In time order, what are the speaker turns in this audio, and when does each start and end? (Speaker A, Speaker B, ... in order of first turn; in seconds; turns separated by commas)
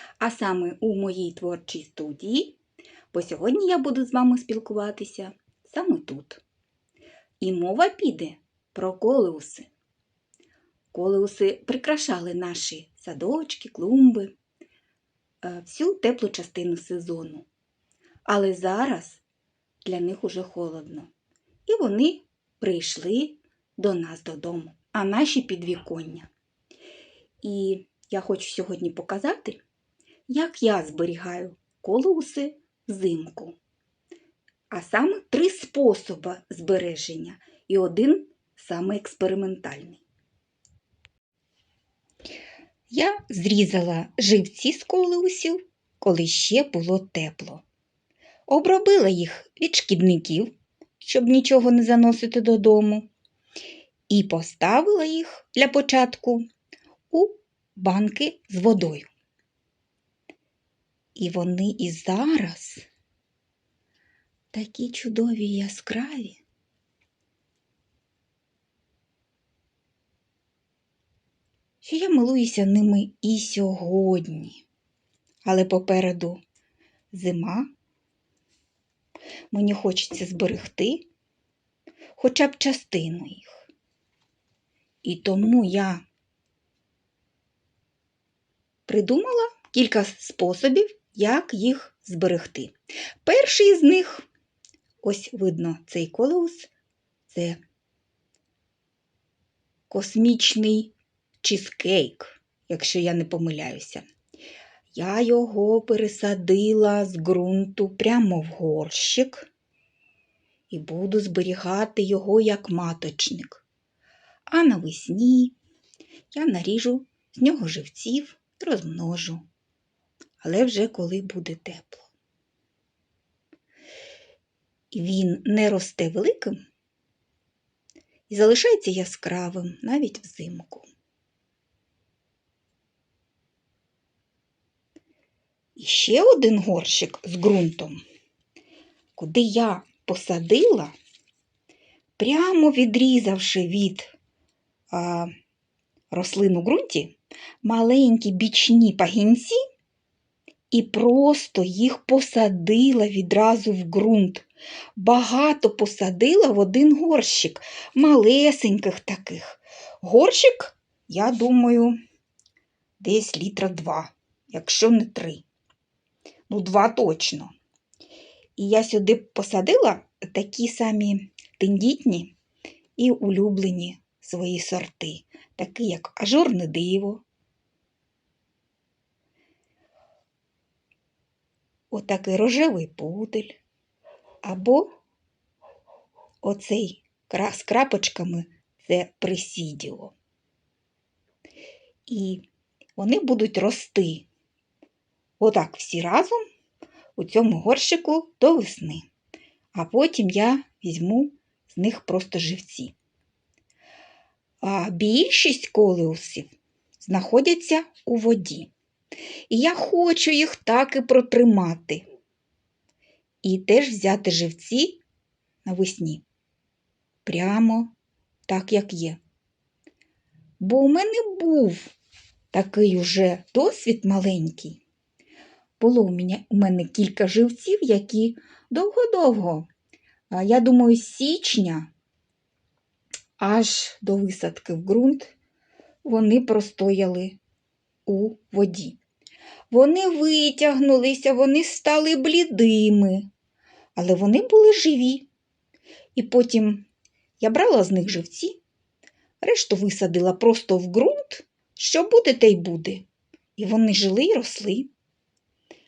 Speaker A: 0.2-2.6, Speaker A: 3.1-6.4, Speaker A: 7.4-9.7, Speaker A: 10.9-14.3, Speaker A: 15.4-17.5, Speaker A: 18.3-19.2, Speaker A: 19.8-21.1, Speaker A: 21.7-26.3, Speaker A: 27.4-29.6, Speaker A: 30.3-33.6, Speaker A: 34.7-40.0, Speaker A: 42.9-47.6, Speaker A: 48.5-53.1, Speaker A: 54.1-56.5, Speaker A: 57.1-59.1, Speaker A: 61.2-62.9, Speaker A: 64.5-66.4, Speaker A: 71.8-74.6, Speaker A: 75.4-76.4, Speaker A: 77.1-77.7, Speaker A: 79.5-81.1, Speaker A: 82.2-83.6, Speaker A: 85.0-86.0, Speaker A: 88.9-92.7, Speaker A: 93.2-94.3, Speaker A: 95.0-96.7, Speaker A: 97.3-97.6, Speaker A: 99.9-104.1, Speaker A: 105.0-109.5, Speaker A: 110.7-113.6, Speaker A: 114.5-115.6, Speaker A: 116.3-119.5, Speaker A: 120.4-122.1, Speaker A: 124.9-126.6, Speaker A: 128.3-130.9, Speaker A: 135.8-138.0, Speaker A: 139.2-140.9, Speaker A: 142.2-144.1, Speaker A: 144.9-145.3, Speaker A: 146.1-149.6, Speaker A: 150.7-161.9, Speaker A: 163.0-165.4, Speaker A: 166.5-167.5, Speaker A: 168.6-172.3, Speaker A: 173.0-177.2, Speaker A: 181.9-183.6, Speaker A: 184.4-184.9, Speaker A: 186.4-190.1, Speaker A: 192.1-192.5, Speaker A: 193.0-194.3, Speaker A: 195.4-196.4, Speaker A: 197.2-199.1, Speaker A: 199.7-202.9, Speaker A: 204.6-208.7, Speaker A: 209.5-212.0, Speaker A: 213.4-215.0, Speaker A: 215.7-216.2, Speaker A: 217.2-217.9, Speaker A: 218.5-219.2, Speaker A: 220.6-221.9, Speaker A: 222.5-224.8, Speaker A: 225.8-229.7, Speaker A: 230.3-231.9, Speaker A: 233.4-235.3, Speaker A: 236.0-237.4, Speaker A: 238.1-239.0, Speaker A: 239.7-243.3, Speaker A: 243.9-245.3, Speaker A: 246.2-246.9, Speaker A: 247.4-248.6, Speaker A: 249.4-253.1, Speaker A: 253.6-254.9